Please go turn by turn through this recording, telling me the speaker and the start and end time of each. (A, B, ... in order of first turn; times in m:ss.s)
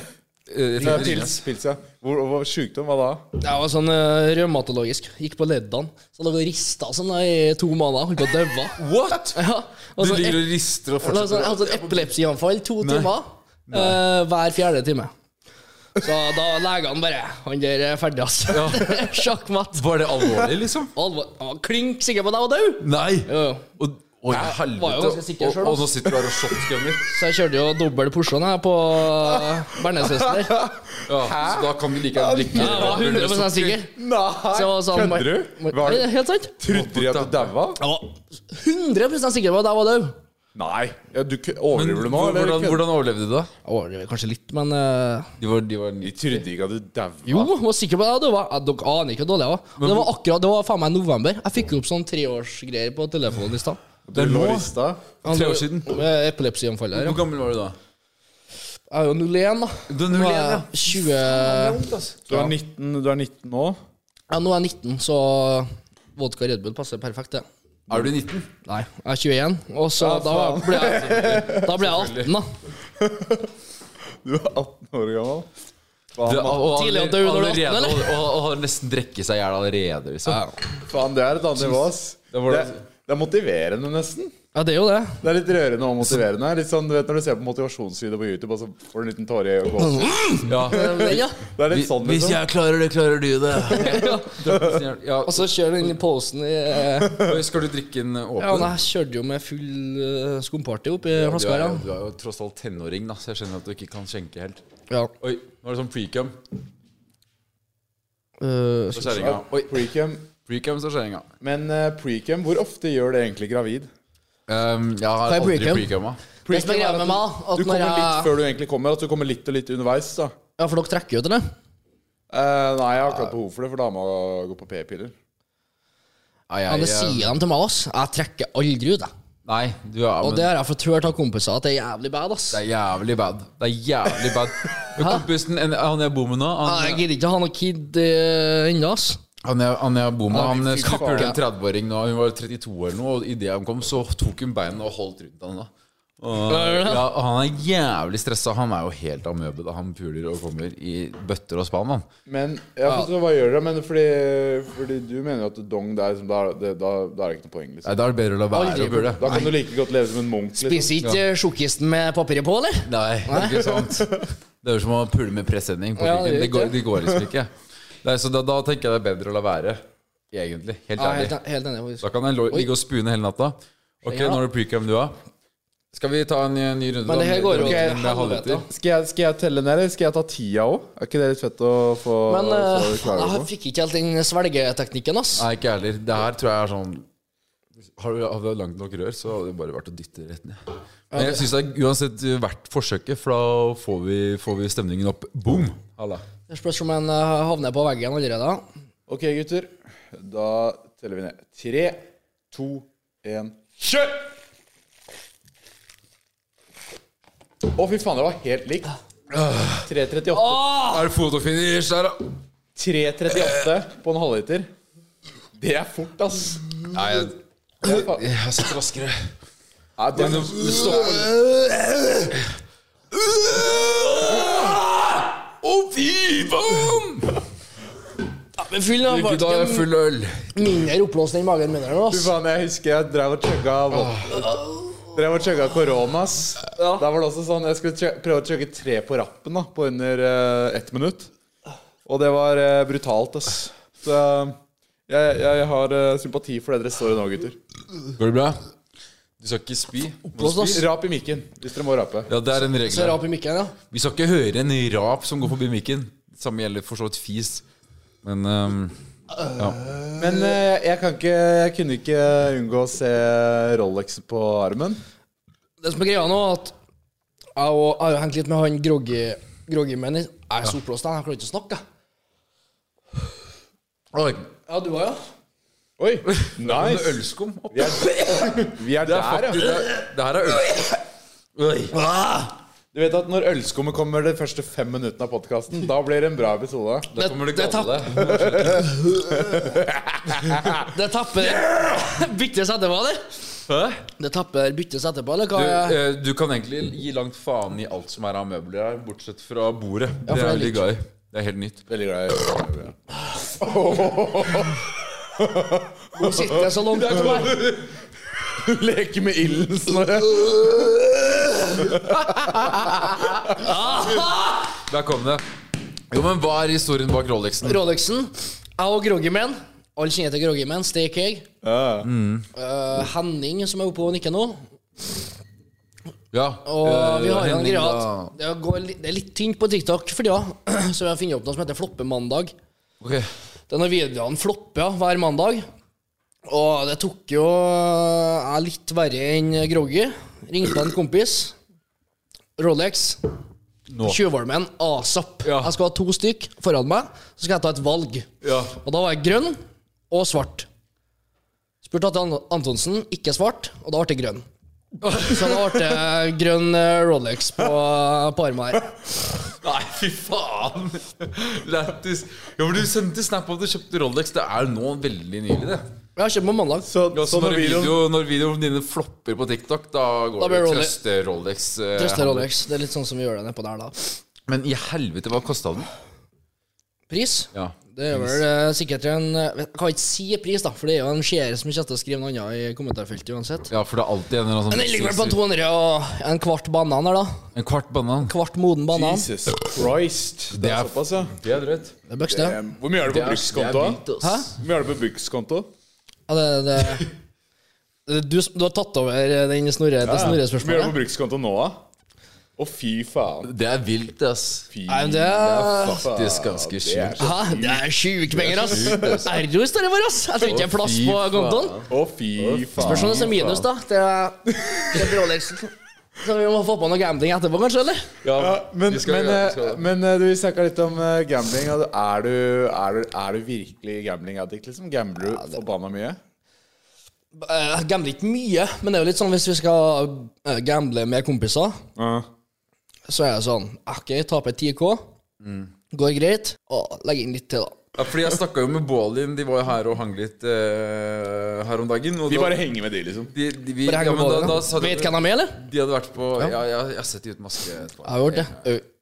0:00.5-0:01.4 A
0:00.8-0:03.2 B
0:00.8-0:01.2 C
0:03.4-0:08.8 C
0:08.8-0:09.4 A
0:09.3-0:10.4 C
0:10.0-0:12.1 A
0:11.0-0:15.1 C
0:12.8-0:13.1 A
0:13.7-0:14.0 A
0:16.0-0:20.2 C
0:18.5-0:20.9 A
0:21.0-0:23.6 C
0:22.8-0:27.0 A
0:24.3-0:25.9 C
0:27.1-0:30.6 C
0:30.0-0:33.3 B
0:31.0-0:33.8 A
0:32.5-0:33.9 C
0:33.9-0:37.8 B
0:34.5-0:36.5 C
0:36.7-0:37.5 A
0:37.8-0:40.2 C
0:40.6-0:42.8 B
0:41.7-0:43.5 A
0:43.6-0:45.3 C
0:45.4-0:46.4 A
0:46.0-0:47.5 B
0:47.3-0:53.8 C
0:49.8-0:50.1 A
0:54.1-0:55.0 B
0:54.1-0:54.7 A
0:55.2-0:57.2 C
0:55.3-0:56.0 A
0:56.9-0:57.8 A
0:58.9-1:02.5 C
0:59.9-1:02.2 A
1:02.3-1:03.8 B
1:04.3-1:07.4 C
1:07.9-1:08.5 A
1:08.6-1:12.5 C
1:10.0-1:11.7 B
1:10.6-1:12.4 A
1:13.0-1:13.5 B
1:14.2-1:15.5 B
1:16.2-1:16.7 B
1:16.2-1:20.4 A
1:16.7-1:18.2 C
1:20.3-1:20.6 C
1:20.9-1:24.3 B
1:22.3-1:22.8 A
1:24.5-1:25.2 C
1:25.2-1:32.4 B
1:29.9-1:31.4 C
1:30.5-1:36.0 A
1:33.7-1:34.4 C
1:35.3-1:37.3 C
1:37.1-1:38.7 A
1:38.4-1:41.8 C
1:41.2-1:44.6 A
1:45.2-1:46.4 A
1:48.4-1:49.3 C
1:48.9-1:51.3 A
1:49.2-1:50.2 B
1:51.4-1:53.9 B
1:54.5-1:56.2 A
1:55.3-1:55.9 C
1:56.5-2:00.3 B
1:56.5-1:58.3 C
2:00.6-2:01.4 C
2:02.3-2:05.1 B
2:06.5-2:07.3 A
2:06.7-2:09.1 C
2:09.5-2:10.5 A
2:10.2-2:12.6 C
2:12.5-2:17.0 A
2:15.0-2:15.2 C
2:16.6-2:19.2 C
2:19.4-2:25.7 A
2:20.3-2:21.4 B
2:20.4-2:21.4 C
2:26.2-2:32.0 A
2:26.5-2:27.1 C
2:32.3-2:37.9 B
2:37.8-2:39.5 A
2:38.5-2:39.5 C
2:39.0-2:40.9 B
2:40.6-2:43.8 C
2:42.8-2:47.5 A
2:46.0-2:46.8 C
2:48.0-2:49.8 A
2:50.3-2:51.4 A
2:51.0-2:52.7 C
2:52.0-2:55.2 A
2:54.1-2:54.4 C
2:55.9-2:58.6 A
2:57.1-2:58.6 C
2:57.5-2:58.0 B
2:58.6-3:03.5 B
3:02.3-3:05.4 C
3:05.4-3:07.1 A
3:08.0-3:10.6 A
3:11.1-3:11.4 C
3:11.1-3:16.2 A
3:16.5-3:18.6 C
3:19.1-3:24.3 B
3:27.7-3:28.9 B
3:29.3-3:29.9 A
3:29.8-3:30.7 B
3:30.3-3:31.1 C
3:30.7-3:32.4 A
3:32.8-3:34.7 B
3:35.6-3:37.2 B
3:36.9-3:39.3 A
3:37.8-3:38.2 B
3:40.0-3:41.4 B
3:40.1-3:42.4 A
3:43.1-3:47.4 A
3:48.6-3:49.9 C
3:49.1-3:50.5 A
3:50.6-3:52.3 C
3:52.1-3:54.6 B
3:53.9-3:54.4 A
3:55.1-4:01.3 B
3:56.8-3:57.0 C
4:02.1-4:04.6 B
4:05.1-4:07.6 B
4:08.2-4:08.6 A
4:09.4-4:10.8 A
4:10.4-4:12.3 B
4:10.4-4:10.8 C
4:12.3-4:13.2 A
4:12.8-4:13.8 C
4:13.9-4:17.6 A
4:18.2-4:19.0 A
4:19.5-4:19.8 A
4:20.2-4:25.0 B
4:25.8-4:26.8 C
4:27.6-4:31.8 C
4:34.1-4:34.5 A
4:34.7-4:35.2 C
4:36.0-4:37.2 B
4:36.3-4:41.0 A
4:37.7-4:39.8 B
4:41.6-4:42.0 A
4:42.0-4:42.5 C
4:42.9-4:47.1 B
4:47.1-4:49.2 A
4:47.2-4:48.1 C
4:48.4-4:50.8 B
4:50.8-4:53.2 C
4:53.7-4:54.0 A
4:54.2-4:56.0 C
4:55.5-5:01.8 A
5:00.3-5:00.9 C
5:01.9-5:06.7 B
5:06.2-5:07.6 C
5:06.9-5:07.9 A
5:08.5-5:13.6 B
5:12.9-5:13.1 A
5:13.5-5:14.6 C
5:14.2-5:15.4 A
5:16.1-5:17.8 A
5:17.6-5:21.5 C
5:21.6-5:22.1 B
5:22.0-5:22.5 A
5:22.6-5:24.6 C
5:26.3-5:28.3 A
5:26.6-5:32.5 C
5:33.0-5:33.3 A
5:33.7-5:35.7 C
5:36.5-5:41.6 C
5:42.6-5:43.2 C
5:43.9-5:44.2 A
5:44.0-5:48.3 C
5:45.4-5:45.7 A
5:48.4-5:48.8 A
5:48.8-5:49.6 C
5:50.1-5:50.7 C
5:51.8-5:54.5 C
5:55.0-5:55.7 A
5:55.2-5:58.9 C
5:59.6-6:05.8 A
6:06.2-6:06.9 C
6:06.8-6:08.0 B
6:07.1-6:12.5 A
6:10.4-6:10.9 C
6:12.0-6:14.2 C
6:14.5-6:15.9 A
6:17.1-6:23.7 C
6:17.5-6:18.4 A
6:23.7-6:25.4 A
6:24.7-6:27.4 C
6:27.6-6:28.3 A
6:28.3-6:29.3 C
6:28.9-6:31.4 B
6:30.5-6:32.0 A
6:32.1-6:32.6 C
6:32.2-6:34.0 B
6:33.0-6:34.5 A
6:34.2-6:34.5 C
6:34.6-6:35.7 B
6:36.3-6:37.1 C
6:38.1-6:41.0 C
6:40.0-6:41.8 B
6:42.6-6:43.5 B
6:43.4-6:44.7 A
6:44.7-6:47.8 B
6:44.9-6:46.1 C
6:45.3-6:47.3 A
6:47.2-6:51.8 C
6:48.4-6:49.3 A
6:48.5-6:49.3 B
6:50.4-6:53.7 A
6:51.9-6:53.3 B
6:52.8-6:58.1 C
6:54.5-6:55.0 B
6:58.2-6:59.8 A
6:58.4-7:06.2 B
7:07.4-7:11.8 C
7:12.0-7:12.3 B
7:13.1-7:15.0 C
7:15.4-7:15.7 A
7:15.9-7:17.8 C
7:18.0-7:22.6 A
7:22.3-7:23.3 B
7:23.3-7:28.7 A
7:23.9-7:25.6 C
7:28.0-7:28.8 C